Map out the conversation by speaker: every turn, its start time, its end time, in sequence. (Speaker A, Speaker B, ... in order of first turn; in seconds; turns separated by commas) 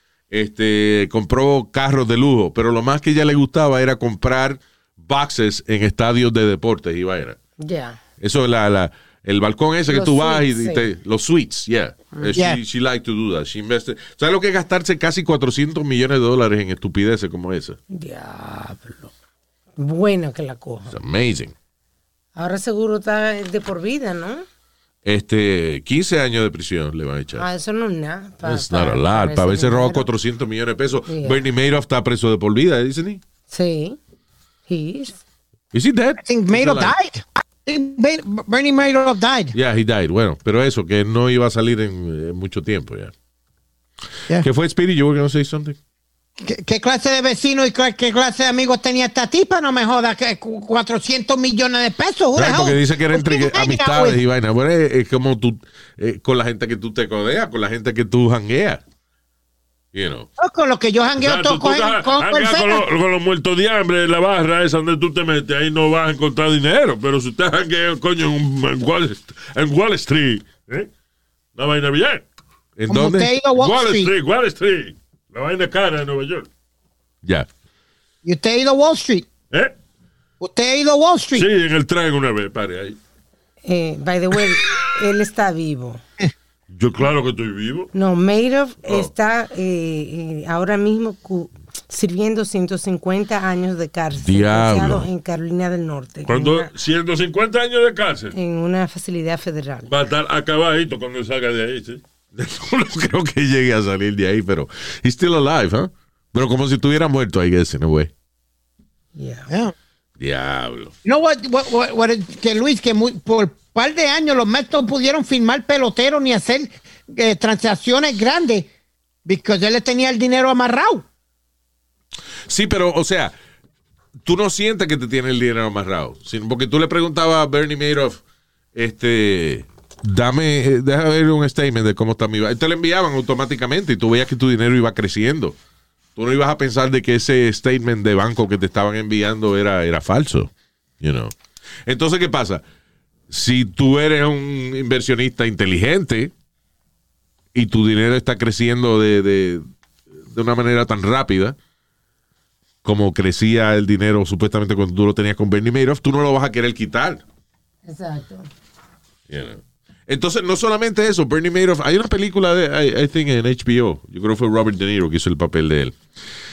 Speaker A: 0.3-7.4, Speaker B: 7.6-8.0, Speaker A: 8.2-17.8, Speaker B: 9.9-10.8, Speaker C: 12.3-12.6, Speaker B: 17.9-19.1, Speaker B: 19.8-20.9, Speaker A: 20.9-21.5, Speaker B: 22.4-24.4, Speaker A: 25.0-27.4, Speaker B: 27.4-30.1, Speaker A: 28.4-33.2, Speaker B: 31.1-31.4, Speaker B: 33.5-34.0, Speaker B: 34.7-35.2, Speaker A: 35.7-36.9, Speaker C: 36.2-39.5, Speaker A: 39.5-43.1, Speaker A: 44.4-45.8, Speaker C: 46.4-54.2, Speaker A: 52.4-58.8, Speaker A: 59.9-60.3, Speaker C: 60.4-62.8, Speaker D: 61.2-70.9, Speaker D: 71.5-72.2, Speaker A: 72.8-73.3, Speaker C: 72.9-74.1, Speaker D: 73.5-76.5, Speaker C: 78.2-79.3, Speaker C: 80.4-81.5, Speaker D: 81.3-83.0, Speaker B: 83.6-86.0, Speaker D: 86.7-87.9, Speaker B: 87.9-96.7, Speaker A: 94.2-95.1, Speaker D: 96.3-98.3, Speaker B: 98.3-99.9, Speaker D: 99.9-102.0, Speaker A: 102.3-108.1, Speaker B: 109.2-109.5, Speaker C: 109.5-109.7, Speaker A: 110.2-110.9, Speaker C: 111.0-118.7, Speaker C: 119.2-121.0, Speaker A: 122.5-123.3, Speaker A: 124.2-128.2, Speaker A: 128.7-135.5, Speaker A: 136.2-141.3, Speaker A: 141.8-142.6, Speaker A: 143.3-146.3, Speaker A: 147.5-149.6, Speaker A: 150.3-151.6, Speaker A: 152.8-157.2, Speaker B: 157.8-158.5, Speaker A: 159.3-165.9